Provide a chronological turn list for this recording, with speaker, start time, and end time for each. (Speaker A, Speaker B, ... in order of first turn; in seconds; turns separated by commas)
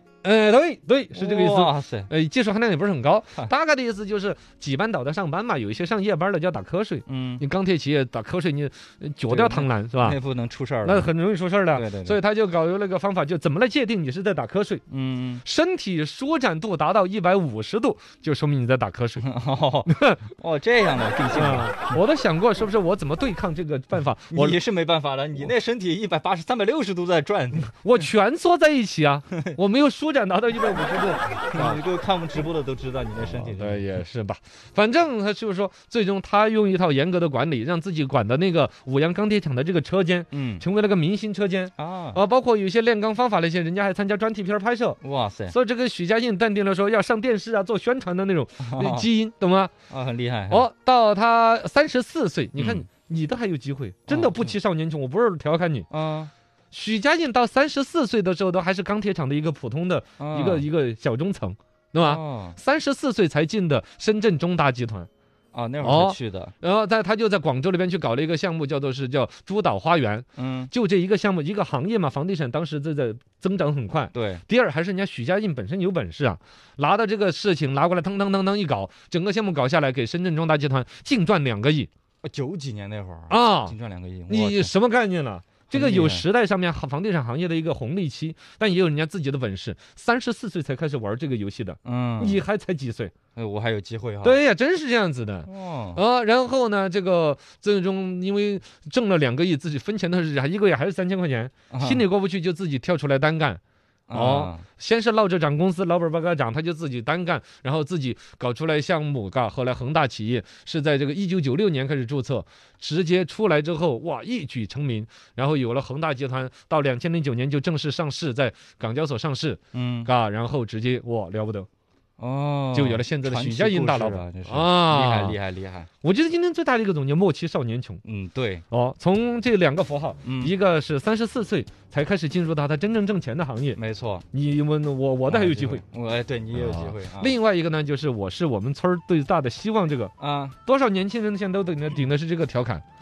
Speaker A: 0.2-10.2, Speaker B: 1.1-2.1, Speaker B: 7.0-7.4, Speaker B: 9.3-11.1, Speaker A: 10.8-14.8, Speaker B: 11.7-12.2, Speaker B: 14.9-15.4, Speaker A: 15.4-19.2, Speaker B: 19.2-21.9, Speaker A: 19.9-20.2, Speaker A: 21.3-24.6, Speaker B: 24.3-27.7, Speaker A: 27.7-31.8, Speaker B: 31.5-33.9, Speaker A: 33.2-49.7, Speaker B: 40.3-40.6, Speaker B: 41.8-42.2, Speaker B: 45.0-45.5, Speaker B: 48.6-49.1, Speaker B: 49.9-50.7, Speaker A: 50.5-55.9, Speaker B: 52.6-52.9, Speaker B: 54.1-54.5, Speaker B: 55.9-56.3, Speaker A: 56.7-65.1, Speaker B: 60.2-60.6, Speaker B: 62.0-62.6, Speaker B: 65.5-66.5, Speaker A: 65.8-81.9, Speaker B: 70.4-70.7, Speaker B: 74.1-74.4, Speaker B: 82.2-84.7, Speaker A: 83.3-83.7, Speaker A: 84.3-93.1, Speaker B: 85.7-86.2, Speaker B: 91.8-92.4, Speaker B: 93.3-94.4, Speaker A: 94.2-103.6, Speaker B: 95.4-96.0, Speaker B: 101.7-102.0, Speaker B: 104.1-104.6, Speaker A: 104.1-121.7, Speaker B: 119.7-120.1, Speaker B: 122.2-125.9, Speaker A: 122.7-125.4, Speaker A: 126.0-128.0, Speaker B: 128.0-128.6, Speaker A: 128.7-133.8, Speaker B: 130.2-130.5, Speaker B: 133.8-134.2, Speaker A: 134.3-135.8, Speaker B: 135.3-137.3, Speaker A: 136.5-140.1, Speaker B: 140.2-140.6, Speaker A: 140.7-142.8